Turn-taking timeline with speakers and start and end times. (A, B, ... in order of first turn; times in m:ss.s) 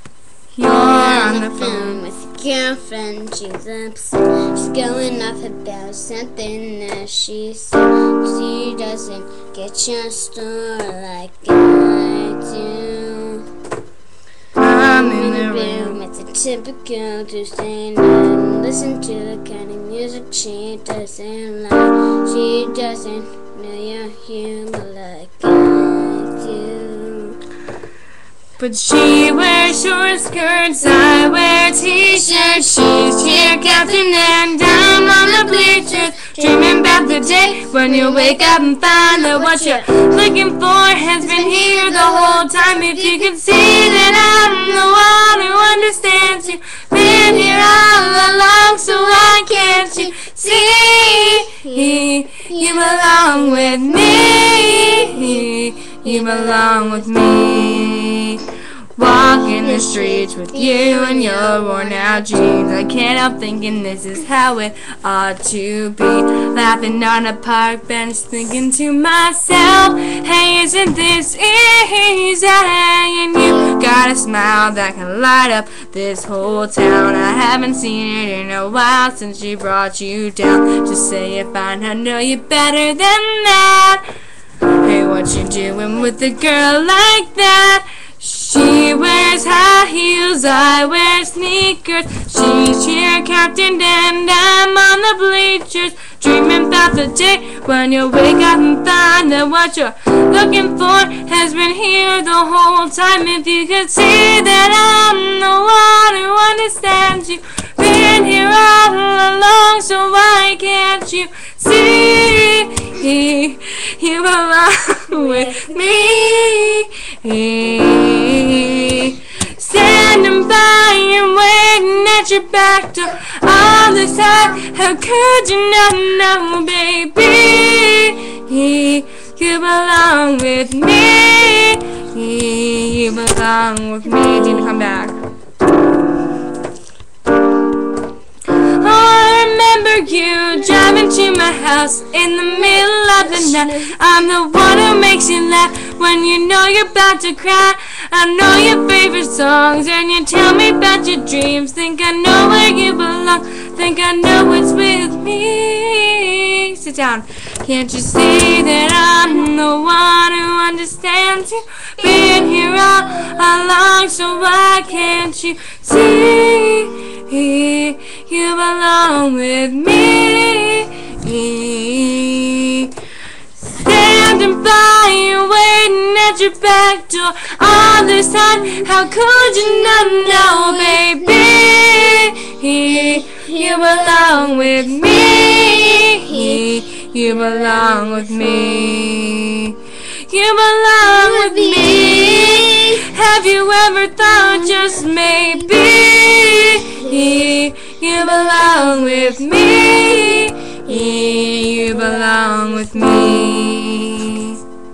0:00.5-0:02.0 A
0:00.6-0:13.4 B
0:14.6-0:16.0 A
0:14.8-0:27.4 B
0:28.6-0:58.4 A
0:31.8-0:40.1 B
0:41.2-0:44.6 B
0:47.4-0:50.3 B
0:51.0-0:55.4 B
0:56.0-0:57.1 B
0:59.0-1:24.0 A
0:59.4-1:02.5 B
1:24.8-2:15.1 A
2:18.6-2:52.9 A
2:53.6-3:09.8 A
2:59.4-3:01.3 B
3:02.9-3:06.6 B
3:07.3-3:08.3 B
3:10.3-3:24.6 A
3:11.0-3:13.0 B
3:16.8-3:17.5 B
3:18.2-3:19.4 B
3:20.9-3:23.1 B